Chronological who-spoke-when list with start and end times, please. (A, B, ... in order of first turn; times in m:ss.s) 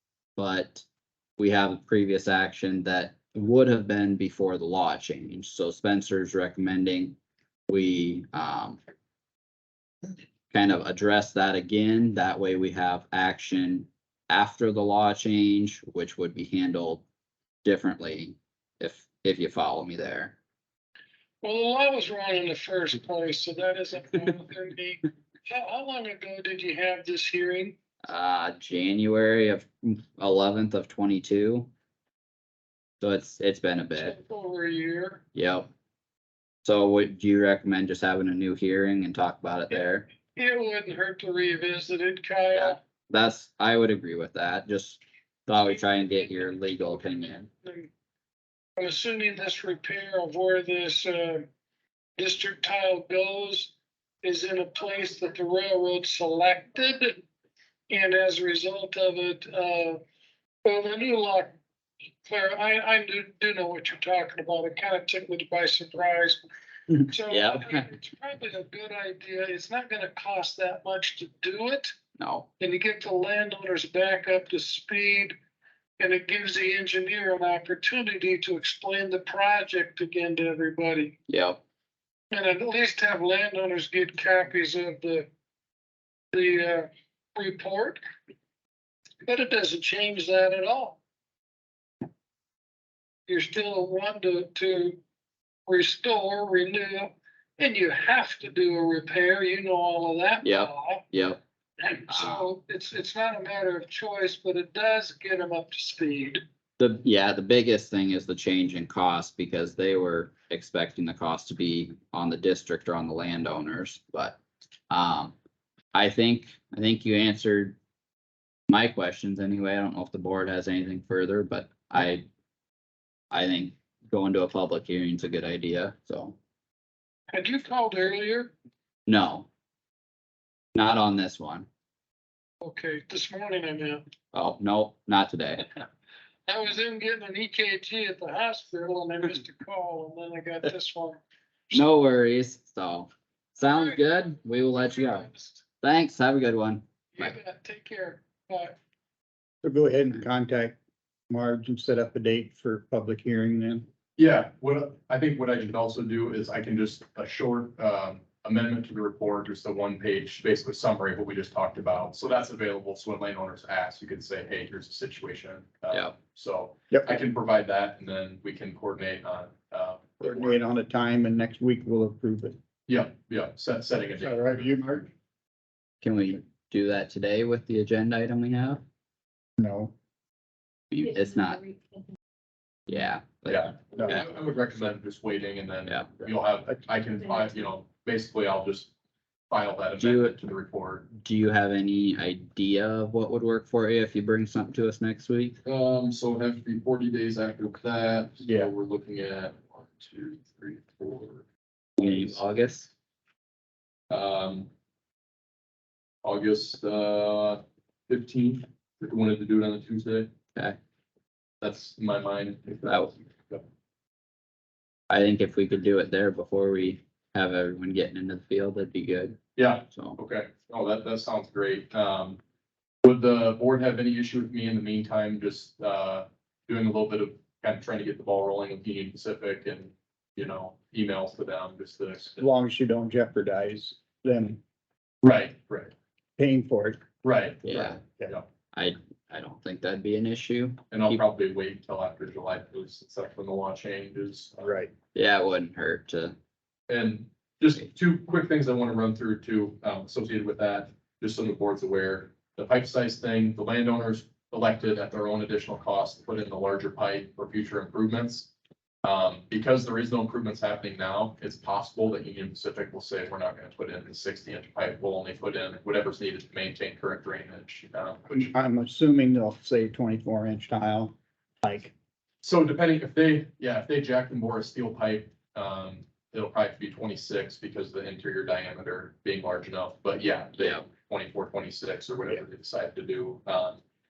0:00.4-0:00.8 A
0:01.4-0:07.2 A
0:07.7-0:08.8 A
0:10.5-0:17.0 A
0:17.6-0:20.4 A
0:21.4-0:27.8 B
0:28.0-0:31.7 A
0:33.0-0:34.2 A
0:34.0-0:35.2 B
0:35.3-0:35.7 A
0:36.6-0:40.1 A
0:40.3-0:42.8 B
0:42.5-0:47.5 A
0:47.6-0:47.9 B
0:48.8-0:51.4 B
0:52.2-0:53.7 B
0:54.2-0:57.2 B
0:57.9-1:00.0 B
1:00.6-1:01.5 B
1:02.2-1:06.4 B
1:07.0-1:11.9 B
1:07.3-1:07.9 A
1:12.2-1:12.5 A
1:12.6-1:15.4 B
1:16.0-1:21.1 B
1:21.3-1:21.6 A
1:22.3-1:25.3 B
1:26.3-1:28.0 B
1:29.2-1:31.0 B
1:33.3-1:35.0 B
1:35.6-1:41.0 B
1:40.4-1:41.4 A
1:41.8-1:46.4 B
1:42.1-1:42.5 A
1:46.8-1:55.3 A
1:55.9-1:57.8 A
1:58.7-2:02.2 A
2:03.3-2:06.4 A
2:07.3-2:08.5 B
2:09.0-2:09.5 A
2:10.7-2:11.7 A
2:12.6-2:14.0 B
2:14.3-2:15.7 A
2:16.5-2:21.2 B
2:21.7-2:25.3 A
2:23.6-2:25.6 B
2:25.8-2:27.3 A
2:27.1-2:28.8 B
2:29.6-2:30.7 C
2:31.3-2:33.8 C
2:34.2-2:50.6 D
2:50.2-2:52.6 C
2:52.9-2:54.7 D
2:54.2-2:55.1 C
2:56.0-2:58.8 A
2:59.6-2:59.9 C
3:00.9-3:01.7 A
3:02.9-3:04.2 A
3:03.5-3:08.9 D
3:05.9-3:06.1 A
3:09.5-3:11.1 D
3:10.0-3:10.3 A
3:11.1-3:15.6 A
3:15.6-3:21.4 D
3:18.4-3:18.7 C
3:22.0-3:22.9 A
3:24.1-3:24.7 D
3:26.2-3:30.3 D
3:31.6-3:33.6 D
3:32.8-3:33.1 A
3:35.1-3:40.2 A
3:39.6-3:42.4 D
3:43.0-3:52.4 D
3:52.4-3:54.6 C
3:55.2-3:55.9 D
3:56.4-3:57.0 C
3:57.2-3:58.5 D
3:57.6-3:58.0 A
3:58.7-4:01.2 A
4:00.9-4:04.8 D
4:04.6-4:04.9 C
4:05.1-4:06.3 A
4:06.9-4:18.5 D
4:19.0-4:28.5 D
4:28.3-4:31.9 C
4:32.4-4:43.8 D
4:40.6-4:40.8 A